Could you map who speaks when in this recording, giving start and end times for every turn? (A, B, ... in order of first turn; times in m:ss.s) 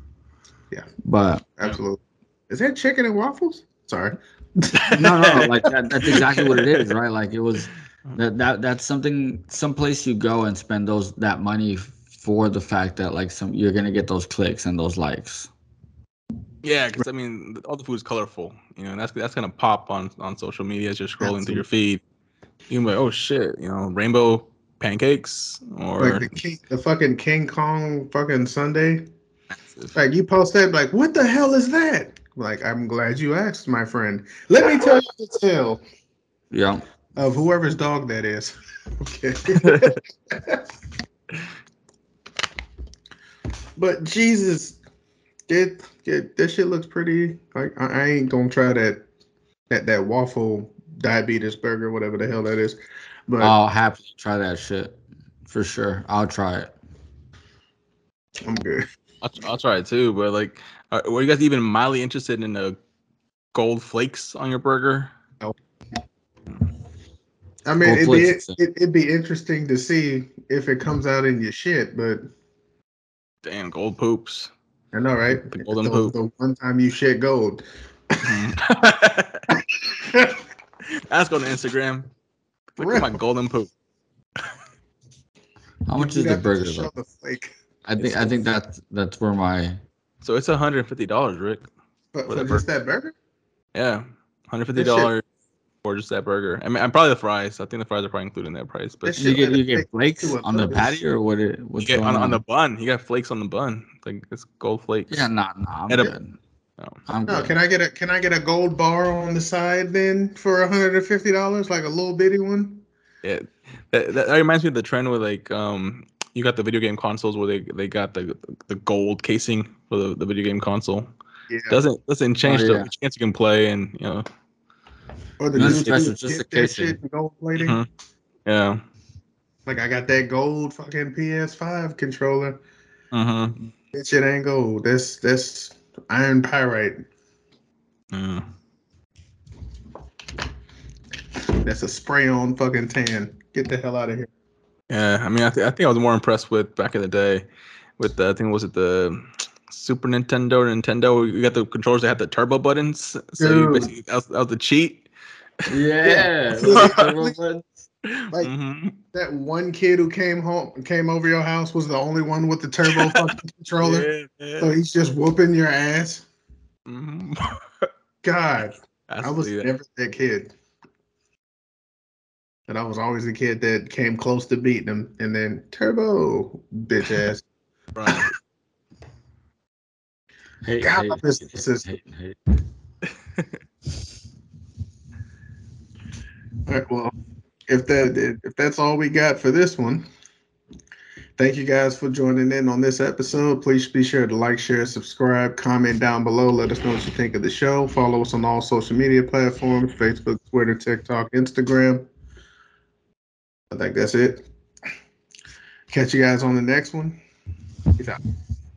0:01.0-0:01.5 A
0:01.6-0:05.1 B
0:04.8-0:06.9 C
0:05.0-0:15.5 A
0:16.6-0:22.0 C
0:21.2-0:21.6 B
0:22.7-0:26.3 C
0:26.0-0:29.0 B
0:29.6-0:30.0 C
0:29.9-0:35.8 B
0:36.5-0:36.8 A
0:37.2-0:40.6 B
0:39.6-0:40.0 C
0:43.8-0:44.8 B
0:45.5-0:49.1 B
0:49.7-0:53.6 B
0:53.4-0:56.7 A
0:58.5-0:58.8 B
0:59.2-1:02.8 C
1:03.5-1:05.1 C
1:07.6-1:12.2 B
1:07.8-1:08.6 A
1:13.4-1:14.5 C
1:14.9-1:18.2 B
1:15.6-1:16.2 C
1:18.2-1:19.4 C
1:19.5-1:20.4 B
1:21.1-1:22.1 C
1:22.8-1:23.7 C
1:22.8-1:23.2 B
1:25.9-1:26.9 A
1:26.0-1:28.4 B
1:27.9-1:29.8 A
1:30.2-1:31.7 C
1:32.1-1:33.1 B
1:32.3-1:32.6 C
1:33.7-1:35.2 C
1:34.8-1:35.1 B
1:35.8-1:39.2 C
1:39.1-1:41.0 B
1:39.2-1:42.4 A
1:41.8-1:45.3 C
1:45.1-1:46.4 A
1:45.9-1:46.2 C
1:47.1-1:47.5 A
1:47.3-1:52.8 B
1:53.2-2:01.1 C
2:01.5-2:01.8 B
2:01.7-2:04.2 C
2:02.4-2:02.9 A
2:05.4-2:07.8 B
2:05.6-2:06.0 C
2:05.6-2:07.0 A
2:07.6-2:07.9 C
2:08.5-2:08.8 C
2:09.7-2:12.6 B
2:13.1-2:13.7 C
2:13.9-2:17.1 B
2:18.1-2:18.4 C
2:21.6-2:24.3 B
2:24.9-2:27.5 C
2:28.0-2:35.1 C
2:33.4-2:33.9 B
2:35.7-2:37.7 A
2:36.0-2:37.4 B
2:36.7-2:37.0 C
2:38.1-2:39.0 C
2:39.1-2:46.2 B
2:42.9-2:43.2 C
2:43.8-2:44.7 C
2:46.9-2:47.6 C
2:48.2-2:50.5 B
2:49.1-2:49.7 C
2:52.7-2:57.4 B
2:58.0-2:58.4 C
3:00.6-3:02.4 A
3:00.8-3:01.9 B
3:06.7-3:07.1 B
3:07.7-3:10.1 B
3:11.4-3:22.1 B
3:23.7-3:24.5 B
3:25.9-3:27.2 B